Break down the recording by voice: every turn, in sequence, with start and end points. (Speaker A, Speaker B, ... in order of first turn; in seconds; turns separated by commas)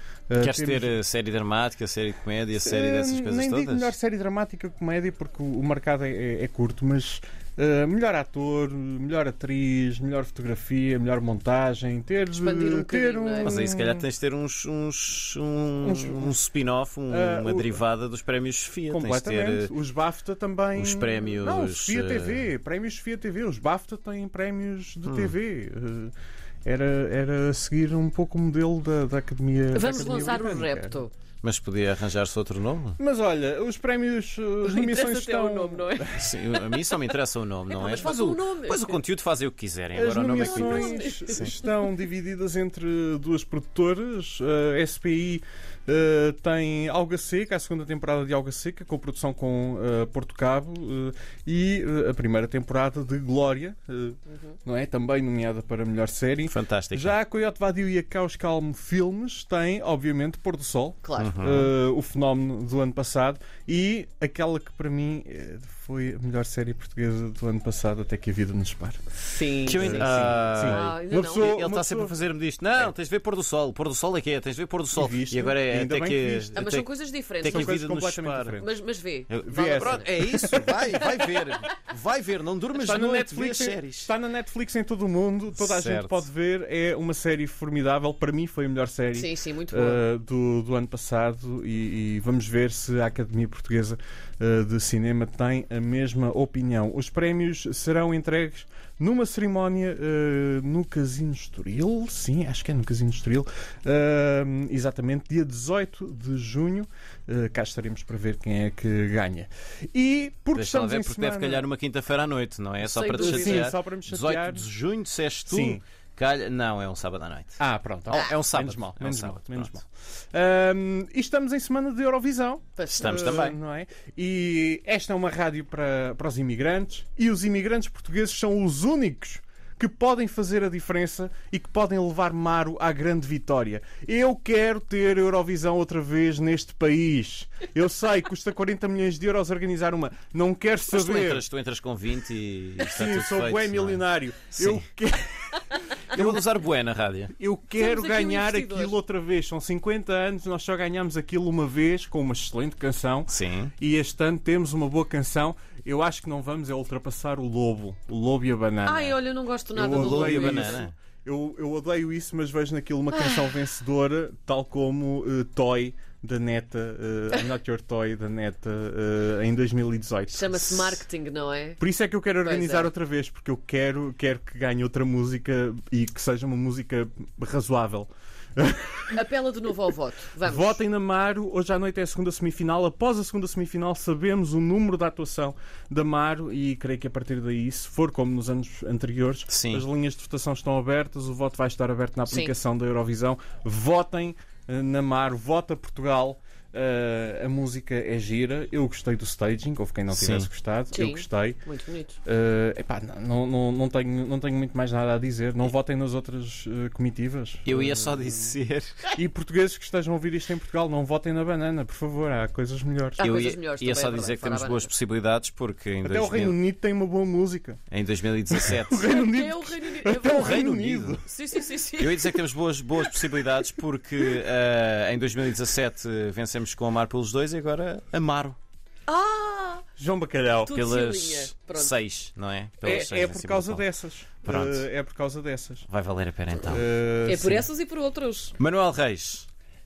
Speaker A: 0.3-0.9, Speaker B: 0.4-3.9, Speaker A: 2.6-14.0, Speaker C: 12.3-13.6, Speaker B: 13.4-19.7, Speaker A: 15.8-16.4, Speaker A: 17.1-17.8, Speaker A: 18.9-26.1, Speaker B: 20.7-22.5, Speaker B: 25.1-25.3, Speaker A: 26.6-31.0, Speaker C: 29.7-31.1, Speaker B: 31.4-33.0, Speaker A: 33.0-36.7, Speaker C: 34.6-36.2, Speaker B: 36.1-41.5, Speaker C: 37.7-39.0, Speaker A: 39.9-69.0, Speaker C: 40.4-41.7, Speaker B: 56.5-57.1, Speaker C: 61.0-61.4, Speaker B: 61.2-61.7, Speaker C: 69.3-71.5, Speaker B: 69.7-78.6, Speaker A: 69.7-72.2, Speaker A: 74.9-76.6, Speaker C: 76.5-77.8, Speaker A: 77.5-78.7, Speaker C: 78.5-80.2, Speaker B: 79.3-84.1, Speaker A: 79.4-81.0, Speaker C: 80.8-81.2, Speaker A: 82.7-111.7, Speaker B: 85.5-86.3, Speaker C: 89.1-90.0, Speaker B: 110.5-119.8, Speaker C: 112.8-113.7, Speaker A: 113.1-114.7, Speaker A: 115.5-115.8, Speaker A: 117.6-141.4, Speaker C: 122.8-123.2, Speaker B: 122.9-123.6, Speaker B: 140.9-144.8, Speaker A: 142.9-146.5, Speaker B: 146.1-147.3, Speaker A: 147.3-171.0, Speaker C: 147.7-148.9, Speaker B: 153.3-153.7, Speaker C: 158.8-160.8, Speaker B: 159.9-160.9, Speaker C: 163.1-163.6, Speaker C: 170.3-171.8, Speaker A: 171.8-179.2, Speaker C: 172.4-172.9, Speaker C: 179.1-180.8, Speaker A: 180.4-201.6, Speaker B: 189.5-189.9, Speaker C: 192.3-192.5, Speaker B: 200.1-200.5, Speaker C: 200.9-202.2, Speaker A: 202.2-208.6, Speaker B: 207.6-209.0, Speaker A: 209.1-213.2, Speaker C: 213.2-214.9, Speaker B: 213.2-216.6, Speaker A: 216.0-217.8, Speaker B: 217.9-219.2, Speaker A: 218.5-221.2, Speaker C: 219.0-220.7, Speaker B: 220.3-221.2, Speaker C: 221.2-222.3, Speaker B: 222.0-228.6, Speaker C: 229.1-229.8, Speaker A: 230.0-230.8, Speaker C: 230.6-232.0, Speaker B: 230.7-233.9, Speaker A: 232.8-235.8, Speaker B: 234.4-234.9, Speaker B: 235.9-236.9, Speaker C: 236.6-238.6, Speaker A: 236.7-237.7, Speaker B: 238.6-239.5